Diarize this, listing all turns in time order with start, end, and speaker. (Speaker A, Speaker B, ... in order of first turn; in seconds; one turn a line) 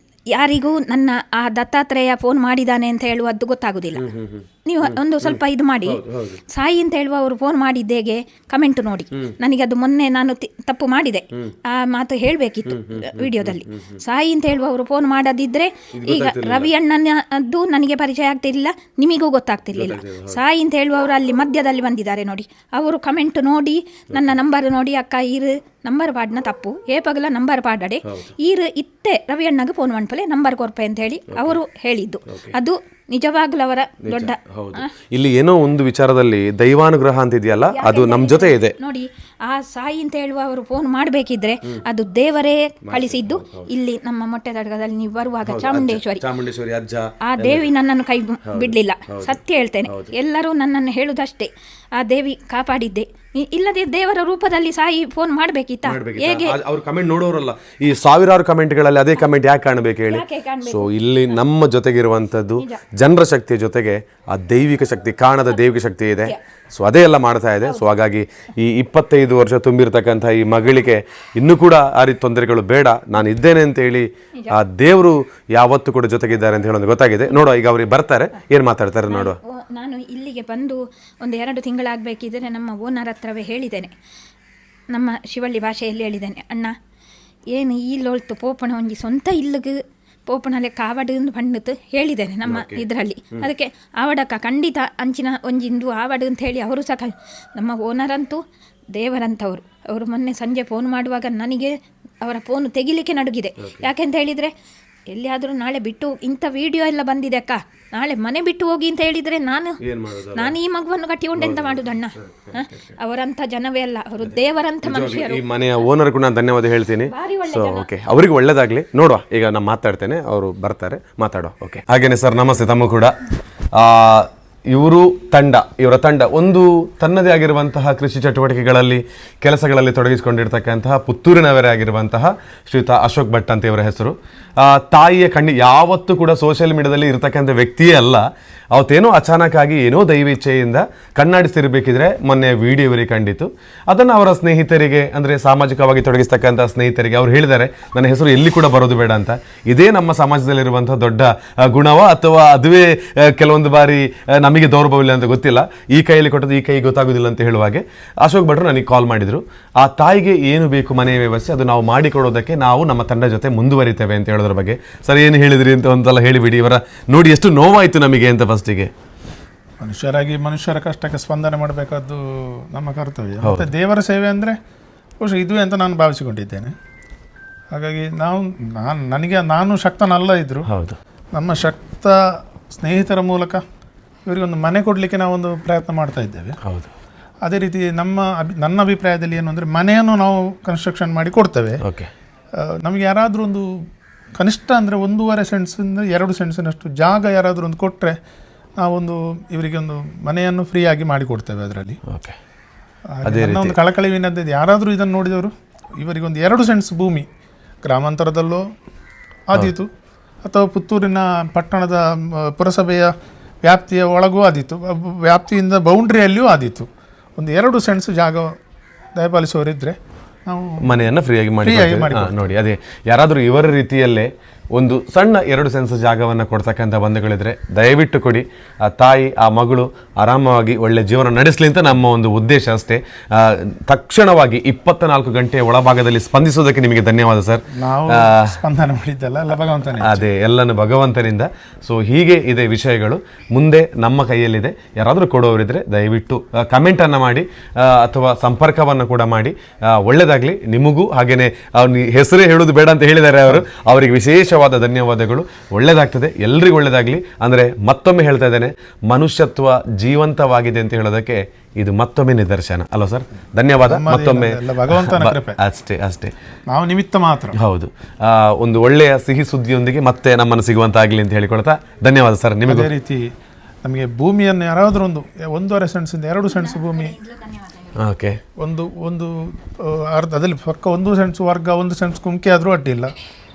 Speaker A: 0.3-4.1
Speaker B: 4.0-6.4
Speaker A: 4.7-6.0
Speaker A: 6.5-34.9
Speaker B: 12.7-14.0
Speaker B: 15.9-16.7
Speaker B: 19.7-20.4
Speaker B: 28.1-28.3
Speaker B: 31.3-31.6
Speaker B: 32.3-32.5
Speaker B: 34.0-38.8
Speaker A: 37.7-46.2
Speaker B: 42.9-43.7
Speaker B: 45.4-47.7
Speaker A: 47.2-56.6
Speaker B: 48.5-50.1
Speaker B: 55.9-79.4
Speaker A: 60.1-60.9
Speaker A: 79.1-83.9
Speaker A: 84.9-86.8
Speaker A: 87.5-98.4
Speaker B: 92.4-93.5
Speaker A: 99.0-104.5
Speaker B: 103.6-103.9
Speaker A: 105.1-109.8
Speaker B: 109.8-110.5
Speaker A: 110.3-115.4
Speaker B: 111.4-113.0
Speaker B: 114.8-123.2
Speaker A: 117.1-117.9
Speaker B: 123.7-168.9
Speaker C: 169.8-174.6
Speaker B: 173.4-173.7
Speaker C: 175.2-176.7
Speaker C: 177.7-180.7
Speaker B: 180.7-181.0
Speaker C: 181.4-182.2
Speaker C: 182.7-183.6
Speaker C: 184.3-186.6
Speaker B: 186.6-186.9
Speaker C: 187.4-191.8
Speaker B: 191.8-192.1
Speaker C: 192.6-193.7
Speaker C: 194.4-198.2
Speaker C: 198.8-202.0
Speaker B: 202.1-202.4
Speaker C: 203.1-207.3
Speaker B: 203.2-203.8
Speaker C: 207.8-208.7
Speaker C: 209.5-209.9
Speaker C: 210.4-213.1
Speaker C: 213.6-218.6
Speaker C: 219.2-221.1
Speaker B: 220.8-238.6
Speaker C: 221.6-222.4
Speaker C: 237.8-240.3
Speaker B: 240.0-266.3
Speaker C: 263.9-265.6
Speaker C: 266.7-267.6
Speaker B: 267.6-272.9
Speaker C: 272.7-273.2
Speaker C: 273.8-277.2
Speaker A: 276.5-278.0
Speaker B: 277.9-278.4
Speaker C: 278.6-283.1